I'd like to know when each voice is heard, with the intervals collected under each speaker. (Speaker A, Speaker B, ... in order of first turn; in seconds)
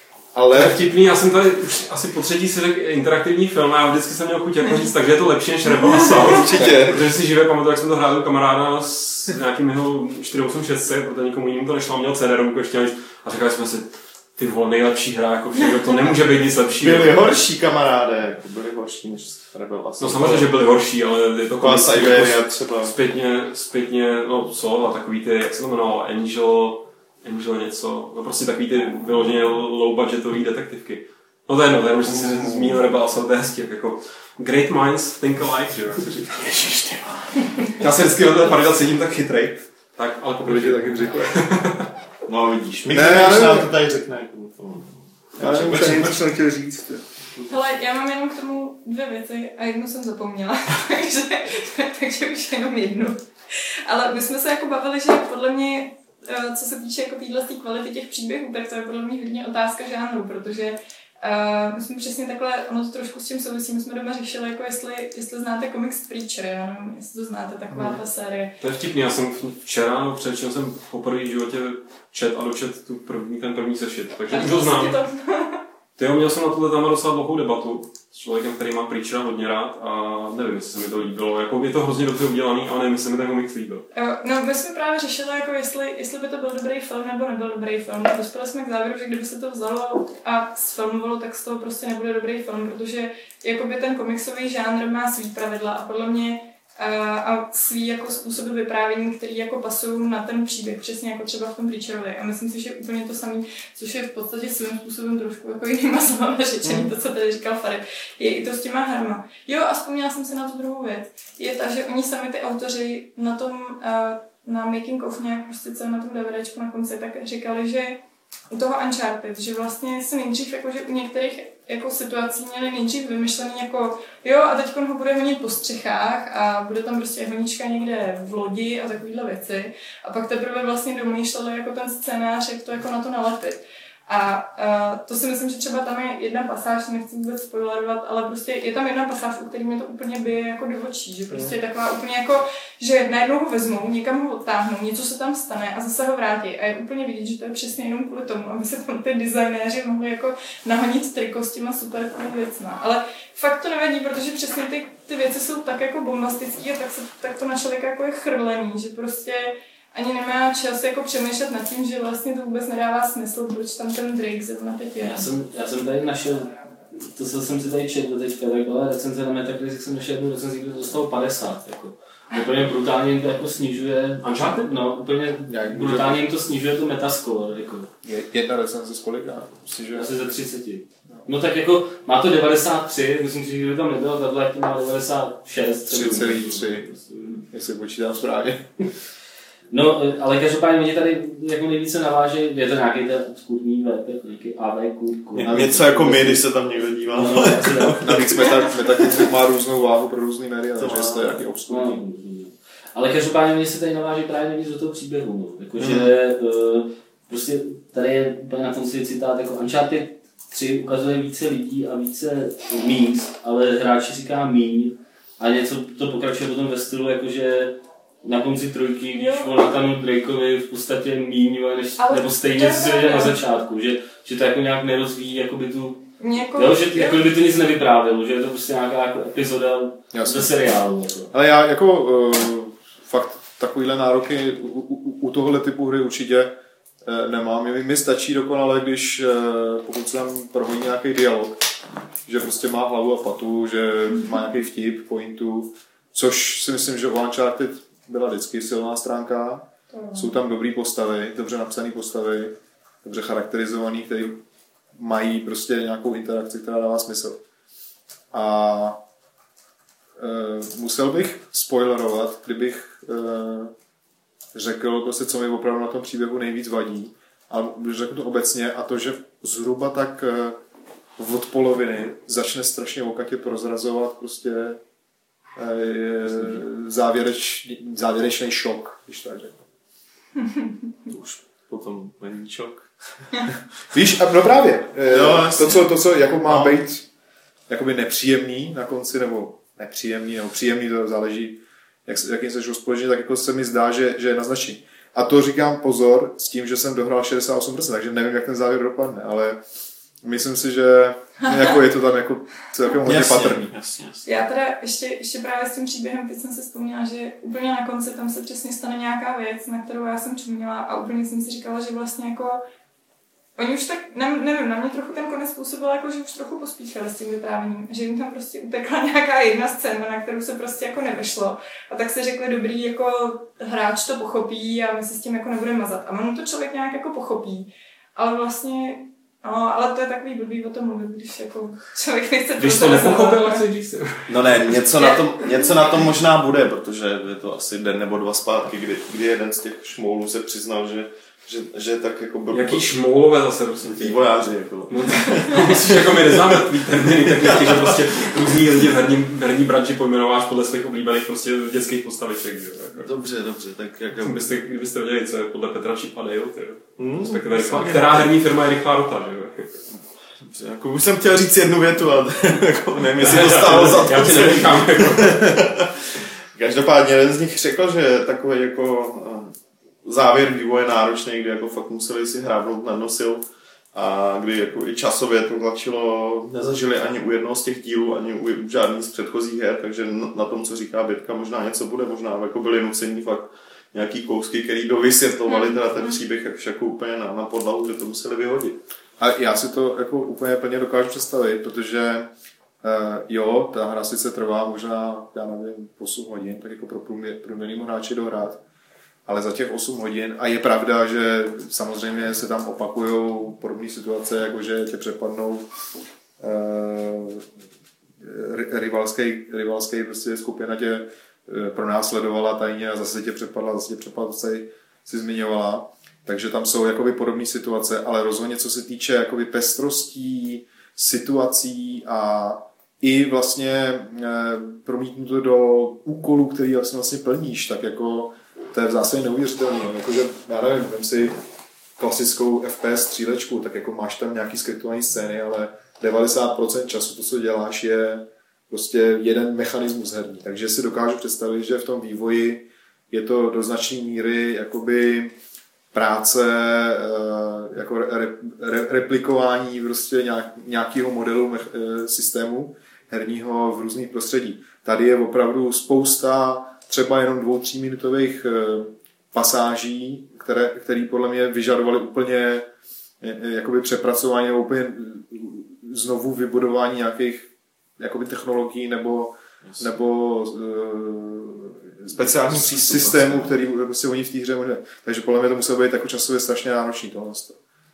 Speaker A: 0.3-0.8, 6.3-7.0, 40.4-41.4, 42.9-43.7, 45.4-47.0, 67.7-68.0, 106.6-106.9, 175.5-176.2, 178.0-180.1, 185.9-186.9, 187.5-188.6, 195.4-196.4, 198.0-202.0, 205.8-206.1, 230.1-230.5, 231.3-236.5, 237.1-241.6, 242.3-252.5, 253.0-254.4, 254.9-257.4, 258.3-259.0, 260.2-263.7, 264.5-270.6, 271.2-274.8, 275.6-279.6, 283.9-287.1, 287.7-299.6, 300.2-303.7, 389.2-392.3, 392.8-398.6, 399.3-405.7, 406.4-407.5, 408.2-431.4, 432.0-445.3, 445.9-462.7, 463.2-477.6
Speaker B: 0.5-17.3, 20.0-36.6, 37.7-41.9, 68.6-75.0, 76.0-83.8, 174.2-174.7, 332.6-334.3, 342.5-344.2, 344.9-353.1, 354.2-359.8, 363.2-365.6
Speaker C: 6.1-6.9, 16.8-20.5, 21.6-22.9, 32.1-32.8, 36.4-37.2, 42.3-46.2, 195.4-199.1, 205.8-206.1, 281.1-283.5, 285.1-285.9, 286.4-286.8, 303.0-304.3, 334.3-342.9, 343.9-348.4, 353.0-354.6, 357.0-358.3, 360.5-388.8, 472.4-473.5
Speaker D: 47.5-68.6, 74.3-75.6, 83.9-165.3, 219.1-219.5, 222.0-223.4, 226.2-227.3, 249.9-250.3, 304.2-312.6, 313.6-333.6, 335.0-335.7, 385.5-386.1
Speaker E: 165.0-177.9, 179.9-187.4, 189.7-196.3, 197.1-198.2, 200.8-231.3